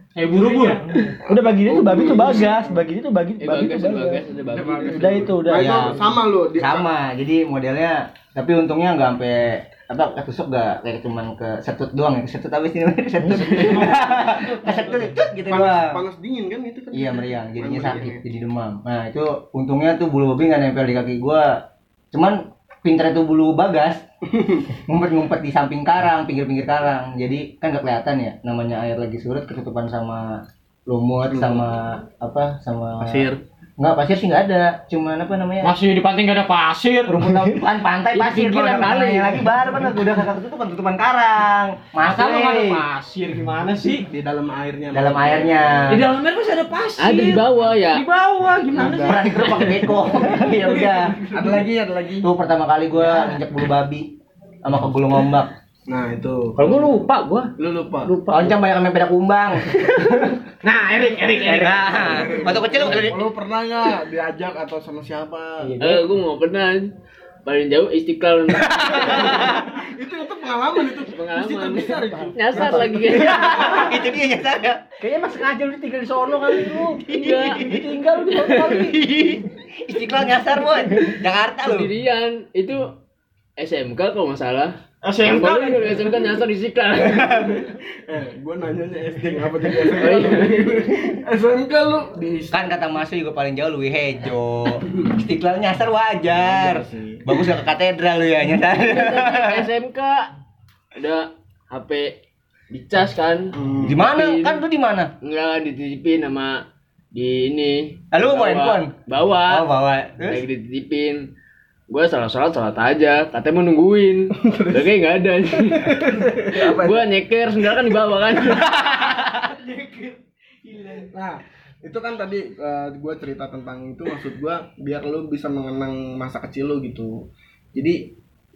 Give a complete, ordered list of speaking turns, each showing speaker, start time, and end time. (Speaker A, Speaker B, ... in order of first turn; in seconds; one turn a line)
Speaker A: 0.1-0.8
Speaker B: 0.9-4.2
Speaker C: 1.2-2.9
Speaker D: 3.4-5.4
Speaker C: 4.5-6.9
Speaker B: 4.9-5.9
Speaker E: 5.5-6.0
Speaker E: 6.6-16.0
Speaker D: 13.3-13.8
Speaker A: 13.5-15.1
Speaker C: 15.5-18.2
Speaker E: 16.9-21.5
Speaker E: 22.1-24.0
Speaker C: 24.3-24.7
Speaker E: 24.9-35.7
Speaker C: 31.3-31.6
Speaker C: 33.0-33.4
Speaker A: 35.6-37.3
Speaker E: 37.1-42.8
Speaker D: 38.1-39.4
Speaker A: 42.0-44.1
Speaker C: 44.0-45.9
Speaker E: 44.9-46.0
Speaker A: 45.9-49.6
Speaker D: 47.0-48.0
Speaker E: 48.8-51.2
Speaker C: 48.8-49.1
Speaker C: 51.3-52.3
Speaker E: 52.2-55.5
Speaker C: 53.0-53.3
Speaker C: 55.9-57.1
Speaker B: 56.6-57.5
Speaker C: 57.6-58.1
Speaker B: 58.0-58.6
Speaker E: 58.3-59.7
Speaker B: 59.8-60.3
Speaker A: 60.6-61.9
Speaker E: 61.4-63.2
Speaker B: 61.5-62.5
Speaker C: 61.9-65.8
Speaker B: 65.6-66.1
Speaker D: 65.8-66.9
Speaker D: 67.4-69.4
Speaker E: 68.6-69.6
Speaker C: 69.2-73.8
Speaker D: 71.1-73.7
Speaker B: 72.0-72.8
Speaker E: 73.1-74.8
Speaker B: 75.0-79.3
Speaker D: 77.0-77.7
Speaker E: 77.0-77.8
Speaker D: 78.2-79.0
Speaker E: 78.7-81.9
Speaker D: 81.6-82.9
Speaker D: 83.6-87.6
Speaker A: 85.0-86.1
Speaker E: 87.1-87.5
Speaker C: 87.6-92.7
Speaker D: 89.8-90.9
Speaker E: 92.5-99.6
Speaker C: 96.3-97.2
Speaker D: 98.8-100.3
Speaker D: 101.0-102.2
Speaker D: 102.7-104.6
Speaker C: 103.5-104.0
Speaker E: 103.8-105.1
Speaker D: 105.2-109.7
Speaker E: 108.1-108.9
Speaker E: 109.5-110.4
Speaker D: 110.2-111.3
Speaker D: 111.9-118.7
Speaker C: 114.4-114.9
Speaker C: 115.7-117.0
Speaker E: 118.7-119.6
Speaker C: 121.1-128.1